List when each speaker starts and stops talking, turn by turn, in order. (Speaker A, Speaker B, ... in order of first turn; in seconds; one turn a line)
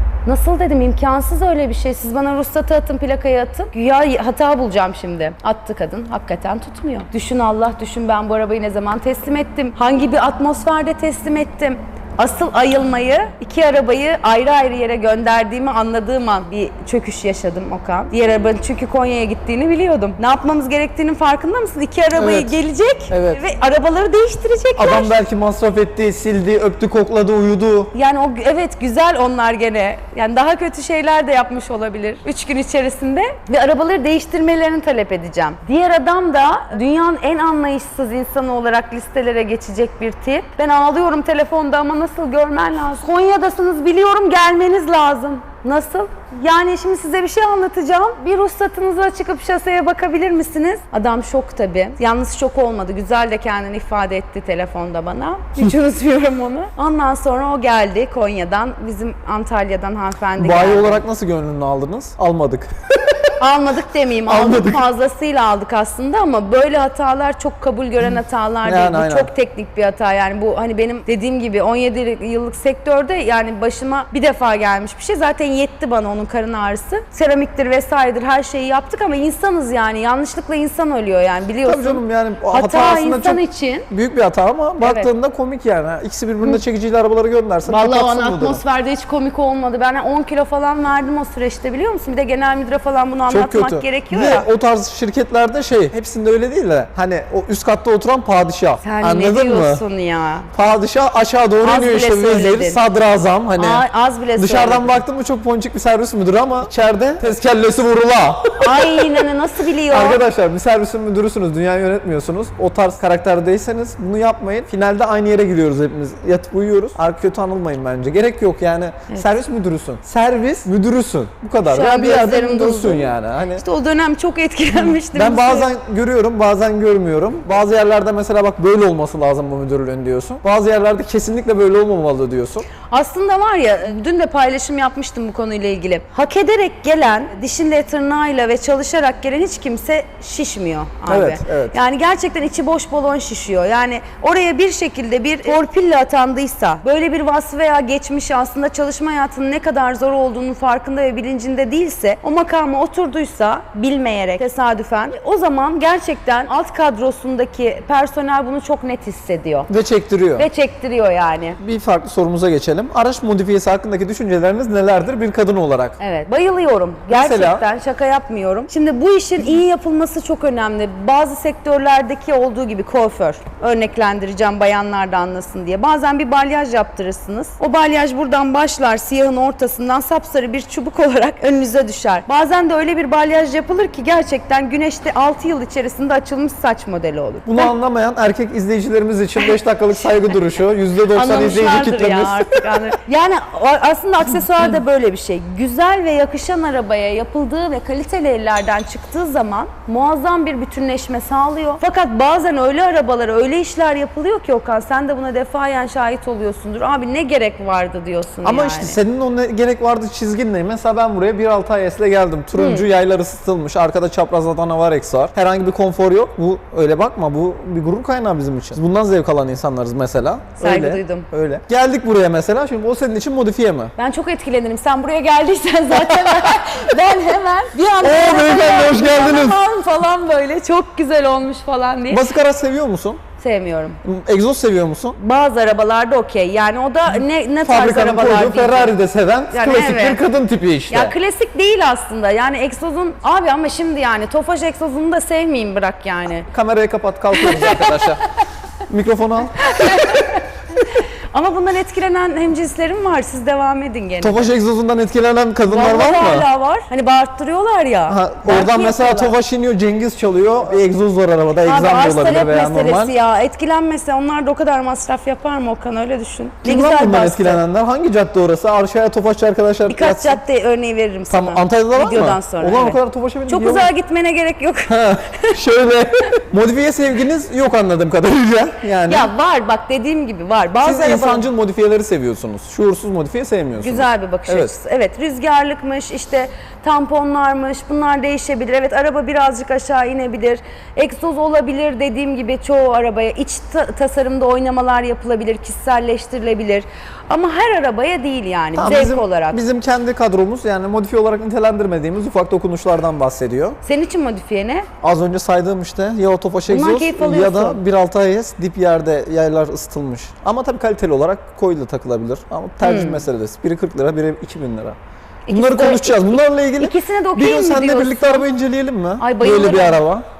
Speaker A: 0.2-25.1
Speaker B: 22.1-22.5
Speaker B: 23.1-23.4
Speaker B: 24.8-27.9
Speaker A: 27.9-61.0
Speaker B: 60.4-62.7
Speaker A: 63.4-83.9
Speaker B: 64.3-64.8
Speaker B: 68.6-69.3
Speaker B: 81.6-88.6
Speaker A: 84.8-85.1
Speaker A: 87.7-94.5
Speaker B: 93.3-99.8
Speaker A: 98.8-100.5
Speaker B: 100.5-103.8
Speaker A: 101.6-102.8
Speaker A: 103.6-105.0
Speaker B: 104.4-109.2
Speaker A: 108.6-110.2
Speaker B: 109.9-123.6
Speaker A: 121.6-125.7
Speaker B: 125.1-132.7
Speaker A: 132.8-159.7
Speaker B: 141.1-141.8
Speaker B: 159.7-160.5
Speaker A: 160.3-161.6
Speaker B: 161.6-166.0
Speaker A: 166.0-187.7
Speaker B: 167.1-167.6
Speaker B: 187.4-192.8
Speaker A: 189.4-190.3
Speaker A: 191.0-209.0
Speaker B: 208.4-223.9
Speaker A: 212.5-212.9
Speaker A: 220.6-221.3
Speaker A: 223.9-232.2
Speaker B: 226.1-226.5
Speaker B: 228.0-229.6
Speaker B: 232.1-233.2
Speaker A: 233.4-234.0
Speaker B: 234.0-235.2
Speaker A: 235.2-238.9
Speaker B: 237.6-241.1
Speaker A: 239.5-240.2
Speaker A: 240.9-246.5
Speaker B: 246.5-248.2
Speaker A: 247.3-248.2
Speaker B: 248.9-250.2
Speaker A: 249.6-254.5
Speaker B: 254.2-256.5
Speaker A: 255.7-259.3
Speaker B: 258.1-263.1
Speaker A: 261.6-267.6
Speaker B: 266.6-270.4
Speaker A: 269.9-275.5
Speaker B: 271.3-273.9
Speaker B: 274.9-279.3
Speaker A: 279.0-281.4
Speaker B: 280.8-284.7
Speaker A: 283.8-299.6
Speaker B: 298.8-303.8
Speaker A: 303.8-304.9
Speaker B: 305.0-315.0
Speaker A: 306.7-307.8
Speaker A: 312.8-313.2
Speaker A: 315.5-318.5
Speaker B: 315.5-320.2
Speaker A: 319.2-320.0